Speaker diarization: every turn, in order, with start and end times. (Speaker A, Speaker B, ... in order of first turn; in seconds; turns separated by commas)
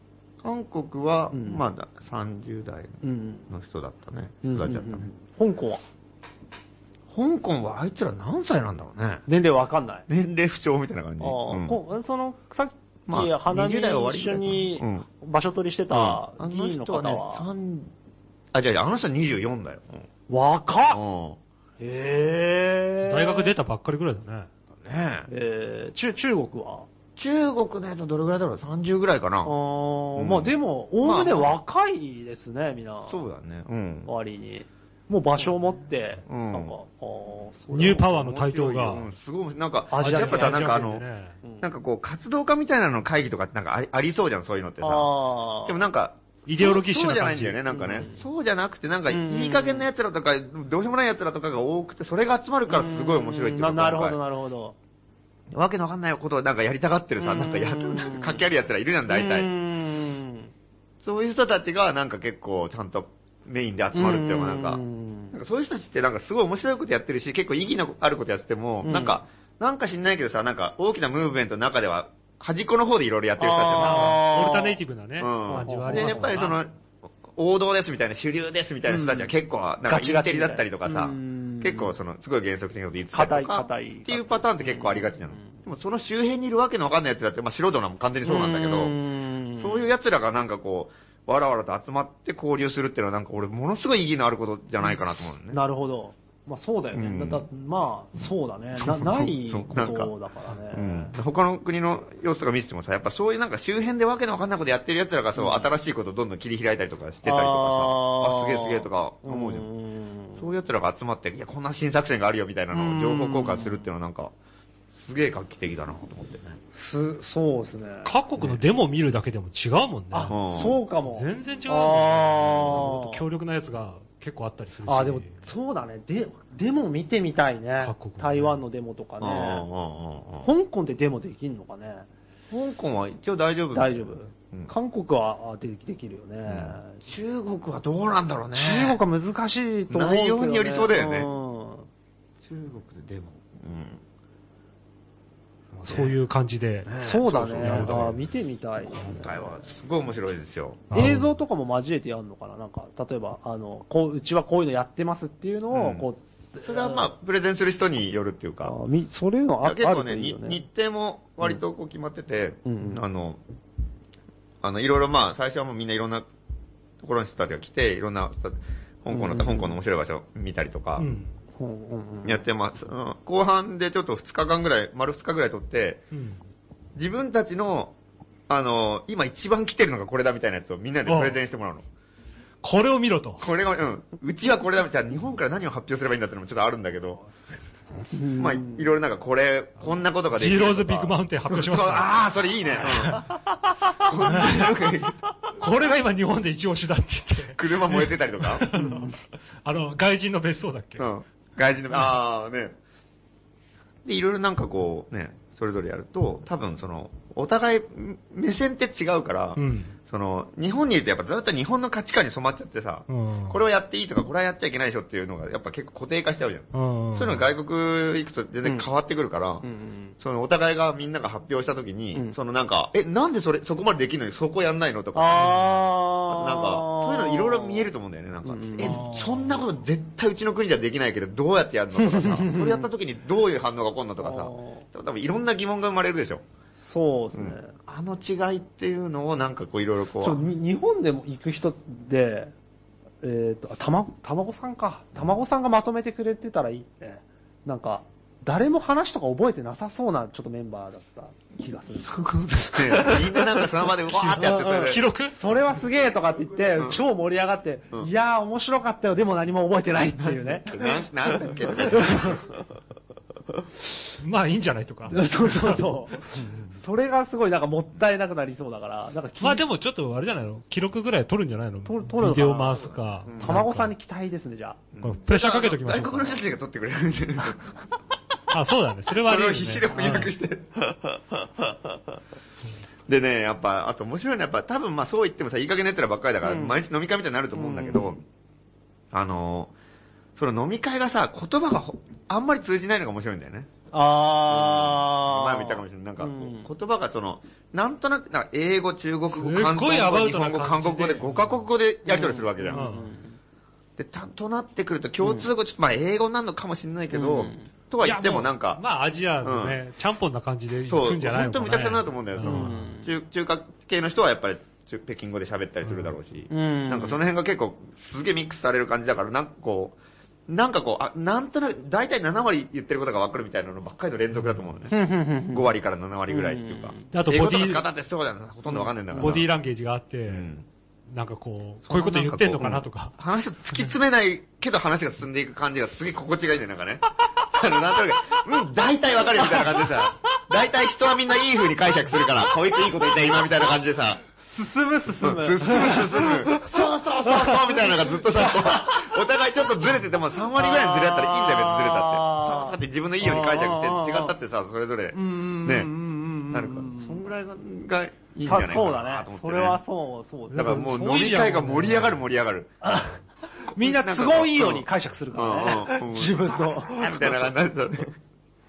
Speaker A: 0.4-5.1, Speaker B: 1.3-1.6, Speaker B: 3.0-3.5, Speaker B: 4.4-5.8, Speaker A: 7.1-9.2, Speaker B: 9.3-10.1, Speaker A: 10.1-11.8, Speaker B: 11.2-17.5, Speaker A: 13.1-15.1, Speaker A: 15.9-17.9, Speaker A: 18.5-20.1, Speaker B: 20.3-21.0, Speaker A: 20.9-21.4, Speaker B: 21.8-23.5, Speaker C: 23.1-24.5, Speaker A: 24.8-25.3, Speaker B: 25.3-26.9, Speaker A: 27.2-29.6, Speaker B: 29.4-33.2, Speaker A: 30.2-31.6, Speaker A: 33.1-34.1, Speaker B: 34.1-38.1, Speaker A: 36.3-36.8, Speaker C: 37.7-39.1, Speaker A: 37.9-41.0, Speaker B: 39.9-40.7, Speaker C: 40.0-41.4, Speaker A: 41.6-45.1, Speaker B: 44.8-45.8, Speaker A: 45.6-54.2, Speaker C: 46.5-47.6, Speaker B: 47.7-48.2, Speaker B: 49.1-49.9, Speaker B: 52.7-54.8, Speaker A: 55.5-59.5, Speaker B: 57.2-58.4, Speaker B: 59.1-60.5, Speaker A: 61.0-64.8, Speaker B: 63.9-65.3, Speaker A: 65.3-74.2, Speaker B: 68.8-69.2, Speaker B: 73.4-74.8, Speaker C: 73.8-76.6, Speaker A: 75.2-76.7, Speaker B: 75.5-76.4, Speaker A: 77.3-89.0, Speaker B: 78.9-79.3, Speaker B: 79.9-82.0, Speaker B: 83.1-85.6, Speaker B: 88.2-89.9, Speaker A: 89.6-95.6, Speaker B: 94.8-101.1, Speaker A: 96.9-97.5, Speaker A: 98.8-100.1, Speaker A: 100.7-109.7, Speaker B: 105.4-105.7, Speaker B: 107.2-110.5, Speaker A: 110.4-114.3, Speaker B: 112.7-113.9, Speaker A: 114.9-116.6, Speaker B: 116.7-118.1, Speaker C: 118.0-120.3, Speaker B: 120.1-123.2, Speaker A: 120.3-120.8, Speaker C: 121.0-125.4, Speaker B: 124.9-129.7, Speaker C: 127.8-128.6, Speaker A: 129.2-130.5, Speaker B: 130.4-132.1, Speaker A: 132.5-134.7, Speaker B: 133.7-137.0, Speaker A: 136.5-139.0, Speaker B: 138.6-141.9, Speaker A: 139.9-141.3, Speaker A: 142.4-144.0, Speaker C: 145.7-148.1, Speaker A: 145.9-146.1, Speaker A: 146.9-148.2, Speaker B: 147.0-149.6, Speaker A: 148.9-150.9, Speaker C: 150.9-151.3, Speaker B: 150.9-157.1, Speaker A: 155.7-156.1, Speaker A: 156.6-158.8, Speaker B: 158.6-160.6, Speaker A: 159.6-163.4, Speaker B: 162.7-163.0, Speaker A: 164.6-166.3, Speaker A: 167.0-171.1, Speaker B: 169.1-169.8, Speaker C: 171.0-171.3, Speaker B: 171.6-172.4, Speaker A: 172.2-176.0, Speaker C: 176.1-176.4, Speaker A: 177.0-177.9, Speaker A: 178.5-181.8, Speaker C: 181.1-181.4, Speaker C: 182.6-183.4, Speaker A: 183.4-187.2, Speaker B: 188.1-188.9, Speaker A: 188.3-195.2, Speaker C: 190.3-192.3, Speaker C: 192.8-193.2, Speaker C: 194.2-194.8, Speaker C: 195.6-201.1, Speaker A: 197.6-198.7, Speaker B: 198.7-199.2, Speaker A: 201.0-202.8, Speaker A: 204.1-219.7, Speaker C: 209.6-209.9, Speaker C: 213.1-213.6, Speaker C: 216.7-217.5, Speaker B: 219.6-220.2, Speaker A: 220.2-225.8, Speaker B: 225.2-227.9, Speaker A: 226.3-236.4, Speaker B: 228.4-229.5, Speaker B: 232.0-232.9, Speaker B: 234.2-234.8, Speaker B: 236.8-237.7, Speaker A: 237.3-240.4, Speaker B: 240.2-242.5, Speaker B: 243.2-253.2, Speaker A: 252.2-255.0, Speaker C: 254.1-255.4, Speaker B: 254.4-261.0, Speaker A: 260.2-262.4, Speaker B: 261.6-262.4, Speaker C: 264.2-265.8, Speaker B: 265.1-269.6, Speaker C: 269.4-273.9, Speaker B: 271.9-274.8, Speaker A: 273.3-273.6, Speaker A: 274.9-277.7, Speaker C: 275.0-276.4, Speaker C: 278.5-280.3, Speaker A: 279.2-282.0, Speaker A: 283.1-288.2, Speaker B: 286.4-286.8, Speaker B: 287.5-288.2, Speaker A: 289.1-289.7, Speaker A: 290.4-293.7, Speaker B: 293.9-296.7, Speaker A: 294.5-302.9, Speaker C: 299.3-301.7, Speaker B: 302.1-303.4, Speaker C: 302.7-303.1, Speaker A: 304.0-308.8, Speaker B: 305.2-305.5, Speaker B: 307.1-307.7, Speaker C: 308.0-313.0, Speaker A: 309.4-309.8, Speaker A: 310.9-325.0, Speaker B: 312.4-313.1, Speaker C: 315.9-316.1, Speaker B: 316.5-317.2, Speaker B: 324.9-325.7, Speaker A: 325.5-329.5, Speaker B: 326.3-327.1, Speaker C: 327.1-327.8, Speaker B: 328.7-329.3, Speaker C: 329.1-330.5, Speaker A: 330.3-330.7, Speaker C: 331.1-333.1, Speaker A: 331.9-344.2, Speaker B: 344.5-349.0, Speaker A: 345.1-355.9, Speaker B: 350.6-354.4, Speaker B: 355.1-357.2, Speaker A: 356.5-359.8, Speaker B: 358.4-360.9, Speaker A: 360.5-362.9, Speaker C: 360.6-362.3, Speaker B: 362.8-367.4, Speaker A: 363.8-368.2